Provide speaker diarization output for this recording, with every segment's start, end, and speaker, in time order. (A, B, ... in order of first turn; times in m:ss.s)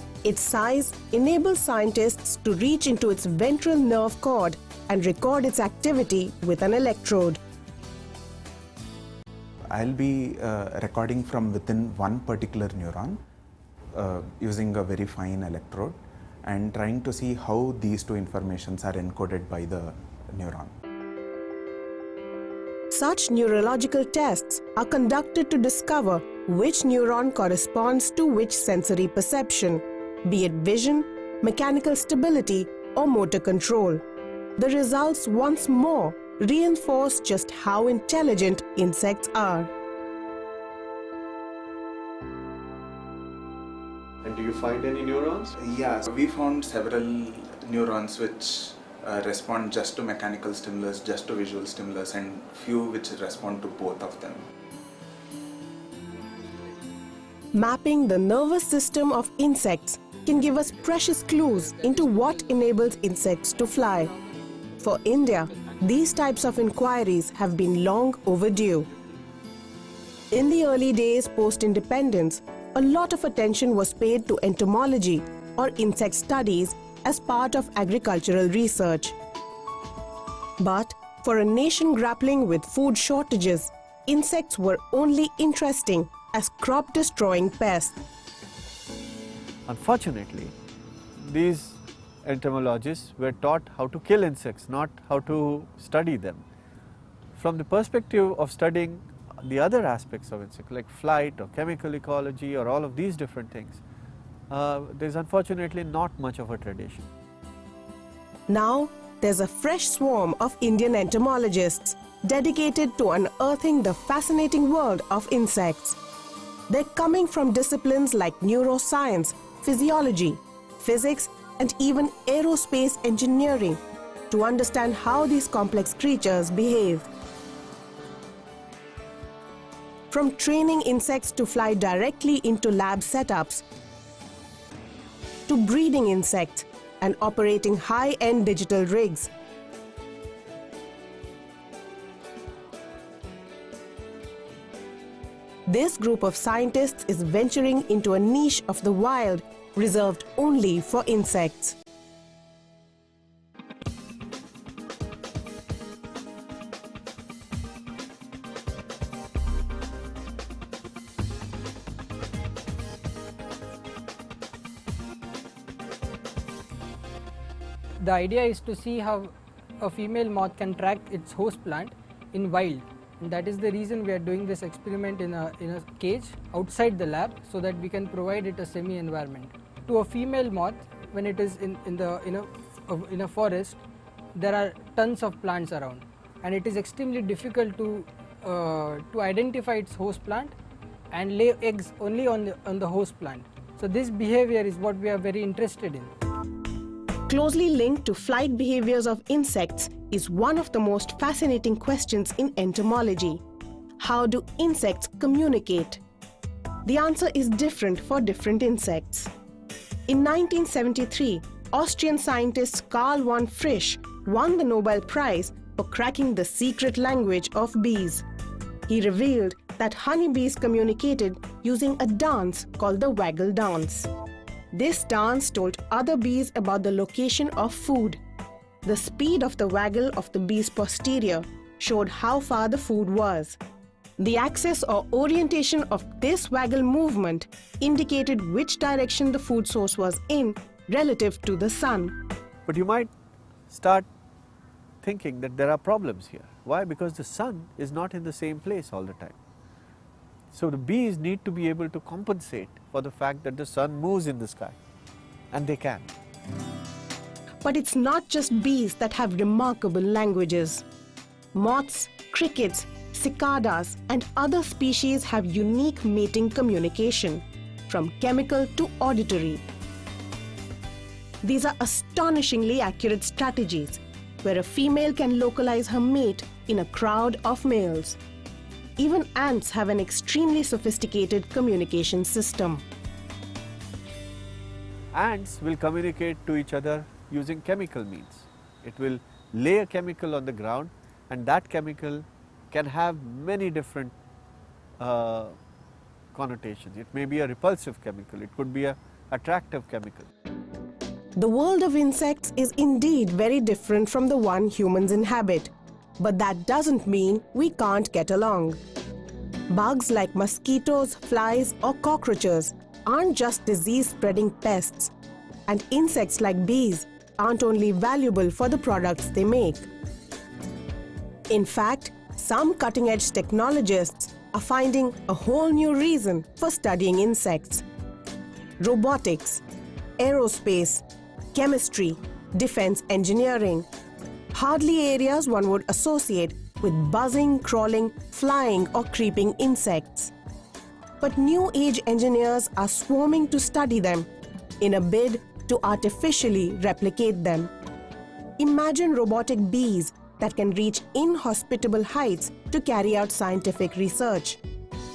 0:00.2-0:07.4 A
0:09.7-0:13.2 B
0:13.9-0:20.7 B
0:22.9-0:34.0 A
0:34.6-0:39.7 A
0:44.2-0:45.6 C
0:45.6-0:54.4 B
0:57.5-1:04.1 A
1:04.8-1:08.9 A
1:10.3-1:19.2 A
1:20.6-1:28.0 A
1:29.7-1:30.6 C
1:31.2-1:36.4 C
1:37.4-1:43.8 C
1:44.5-1:47.0 C
1:48.5-1:56.0 A
1:56.7-2:07.1 A
2:10.1-2:13.6 A
2:15.5-2:19.3 A
2:25.7-2:31.8 A
2:48.0-3:03.8 D
3:04.4-3:10.6 D
3:11.1-3:16.1 D
3:17.3-3:23.4 A
3:24.0-3:26.0 A
3:26.8-3:29.3 A
3:30.1-3:38.2 A
3:38.9-3:44.1 A
3:44.7-3:48.2 A
3:48.8-3:53.6 A
3:54.2-4:02.1 A
4:02.7-4:03.1 C
4:03.7-4:04.1 C
4:05.0-4:09.4 C
4:10.5-4:14.8 C
4:15.5-4:16.1 C
4:17.6-4:20.8 A
4:21.5-4:29.6 A
4:31.4-4:38.2 A
4:39.0-4:42.8 A
4:45.1-4:54.2 C
4:55.0-4:55.6 C
4:56.3-5:00.3 C
5:01.4-5:08.8 A
5:09.7-5:15.1 A
5:15.7-5:19.9 A
5:21.5-5:27.8 A
5:28.8-5:29.6 A
5:30.2-5:33.9 A
5:34.5-5:40.3 A
5:41.2-5:44.3 A
5:44.8-5:47.7 A
5:48.6-5:54.6 A